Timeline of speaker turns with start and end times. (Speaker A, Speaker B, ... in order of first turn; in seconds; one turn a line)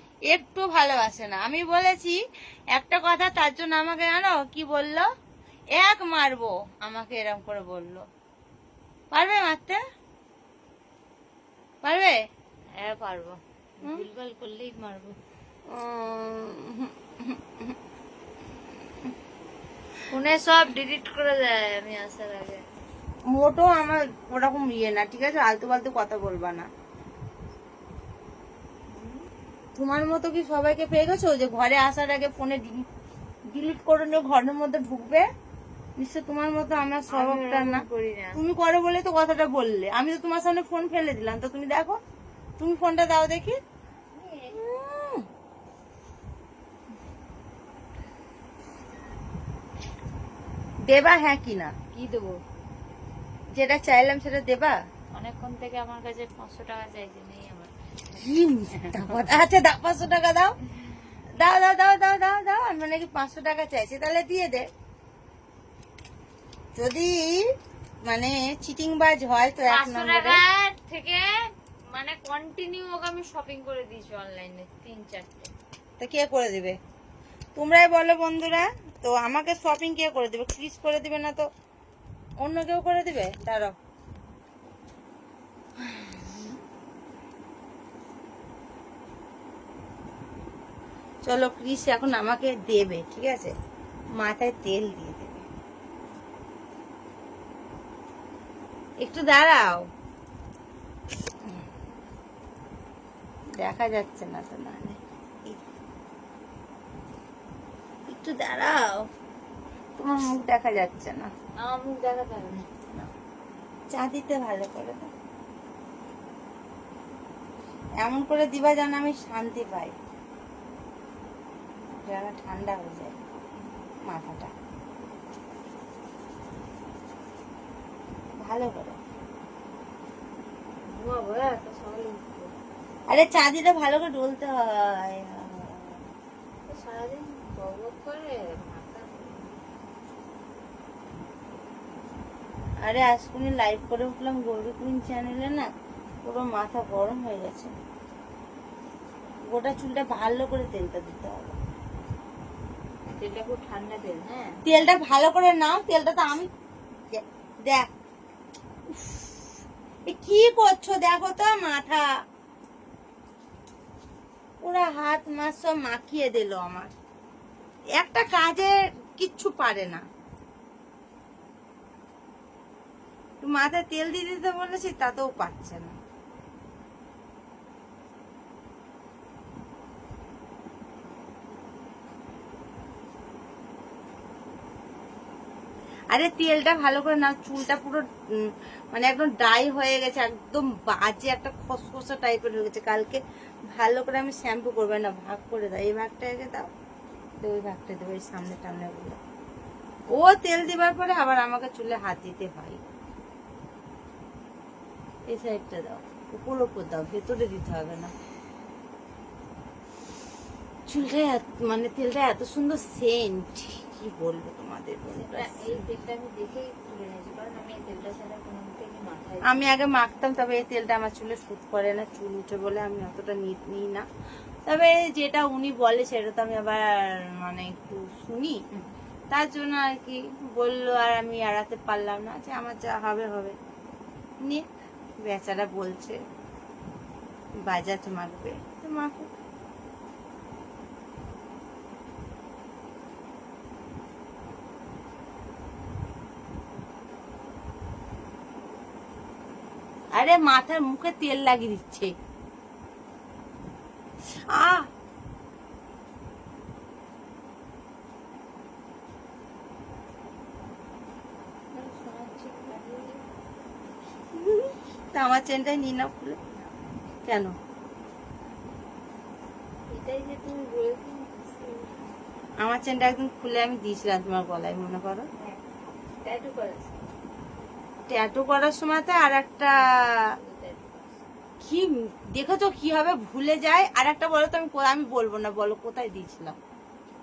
Speaker A: 0.3-2.2
Speaker A: 2.7-5.1
Speaker A: 5.8-8.0
Speaker A: 9.1-9.8
Speaker A: 11.8-12.2
Speaker B: 12.8-15.2
Speaker A: 15.7-17.8
Speaker B: 20.1-22.6
Speaker A: 23.3-26.7
Speaker B: 28.9-29.3
Speaker A: 29.8-32.9
Speaker A: 33.5-35.3
Speaker A: 36.0-42.0
Speaker B: 37.1-38.4
Speaker A: 42.6-43.6
Speaker B: 44.1-44.5
Speaker A: 44.5-45.2
Speaker A: 50.9-51.7
Speaker B: 51.9-52.4
Speaker A: 53.5-54.8
Speaker B: 55.1-58.2
Speaker A: 58.1-60.5
Speaker B: 58.7-59.1
Speaker A: 61.4-64.7
Speaker A: 66.8-67.4
Speaker A: 68.1-70.4
Speaker B: 69.7-71.3
Speaker B: 71.9-75.5
Speaker A: 76.0-76.8
Speaker A: 77.5-81.5
Speaker A: 82.4-83.7
Speaker A: 91.2-93.5
Speaker A: 94.2-95.5
Speaker A: 99.0-99.8
Speaker A: 103.6-105.6
Speaker A: 108.1-109.1
Speaker A: 110.0-111.3
Speaker B: 111.6-112.7
Speaker A: 113.9-115.1
Speaker A: 118.0-120.0
Speaker A: 122.0-123.2
Speaker A: 124.1-124.5
Speaker A: 128.4-129.0
Speaker B: 130.9-132.5
Speaker A: 133.1-136.1
Speaker B: 136.7-139.6
Speaker A: 142.8-145.7
Speaker A: 146.2-147.7
Speaker A: 149.5-151.6
Speaker B: 153.2-154.6
Speaker A: 154.7-156.5
Speaker A: 157.1-157.9
Speaker A: 158.9-162.1
Speaker A: 164.6-166.9
Speaker A: 168.0-170.0
Speaker A: 173.4-176.0
Speaker A: 186.1-193.2
Speaker A: 193.7-196.7
Speaker A: 197.4-199.2
Speaker A: 200.1-202.8
Speaker A: 205.3-208.1
Speaker A: 210.9-215.9
Speaker B: 215.1-219.6
Speaker A: 219.4-224.1
Speaker A: 224.7-228.6
Speaker A: 229.3-233.6
Speaker A: 235.2-236.2
Speaker A: 237.7-239.3
Speaker A: 250.2-252.1
Speaker A: 254.5-254.9
Speaker B: 261.7-263.3
Speaker A: 264.3-266.4
Speaker A: 267.2-267.6
Speaker B: 269.9-272.1
Speaker A: 272.6-275.3
Speaker B: 275.4-277.0
Speaker A: 278.1-280.3
Speaker B: 279.8-281.2
Speaker A: 281.6-286.6